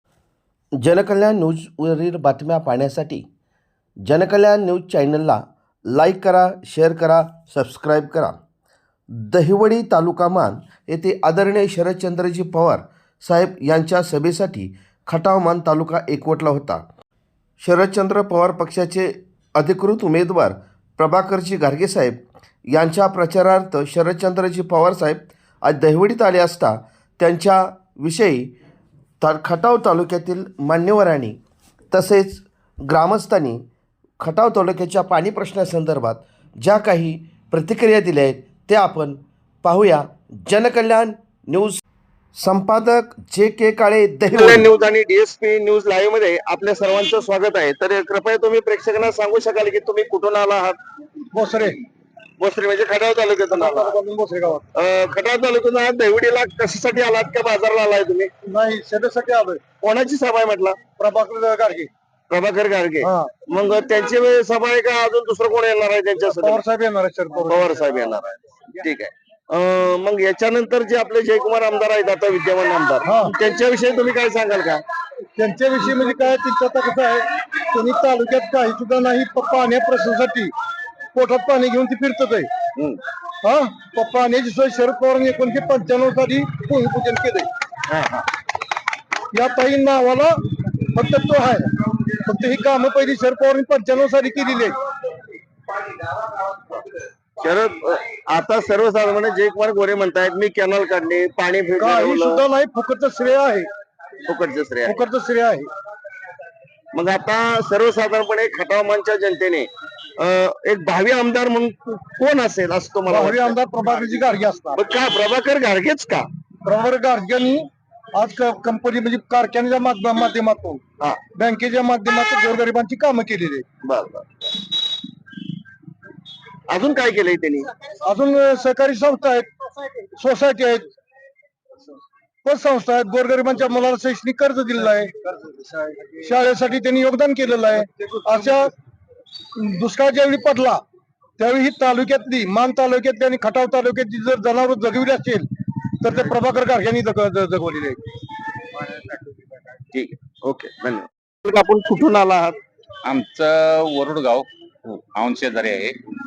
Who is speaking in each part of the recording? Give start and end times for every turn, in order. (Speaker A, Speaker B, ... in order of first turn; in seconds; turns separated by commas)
Speaker A: 0.8-3.2, Speaker A: 4.0-8.4, Speaker A: 9.1-16.8, Speaker A: 17.6-28.5, Speaker A: 29.2-31.4, Speaker A: 31.9-33.6, Speaker A: 34.2-41.8, Speaker A: 42.3-44.6, Speaker B: 44.3-50.8, Speaker C: 51.3-51.8, Speaker B: 52.4-54.0, Speaker C: 53.6-54.6, Speaker B: 54.7-58.3, Speaker C: 58.5-59.6, Speaker B: 59.8-60.9, Speaker C: 60.9-61.9, Speaker B: 62.3-66.6, Speaker C: 63.0-63.3, Speaker C: 66.4-67.8, Speaker B: 67.4-74.8, Speaker C: 75.4-80.5, Speaker C: 81.1-82.5, Speaker C: 83.4-87.5, Speaker B: 87.9-88.2, Speaker C: 89.3-90.3, Speaker C: 90.9-91.7, Speaker C: 92.2-94.8, Speaker B: 96.5-96.8, Speaker B: 97.4-102.4, Speaker C: 101.8-103.7, Speaker B: 104.2-105.0, Speaker C: 104.8-105.7, Speaker B: 106.9-116.2, Speaker C: 113.1-114.8, Speaker C: 116.7-120.8, Speaker C: 121.3-123.6, Speaker B: 123.8-124.2, Speaker B: 126.7-127.7, Speaker C: 128.1-129.5, Speaker C: 130.2-130.9, Speaker C: 132.4-135.1, Speaker C: 136.2-138.7, Speaker C: 139.6-140.8, Speaker C: 141.4-145.5, Speaker C: 146.0-148.0, Speaker B: 149.9-152.6, Speaker D: 153.0-154.4, Speaker D: 155.1-156.0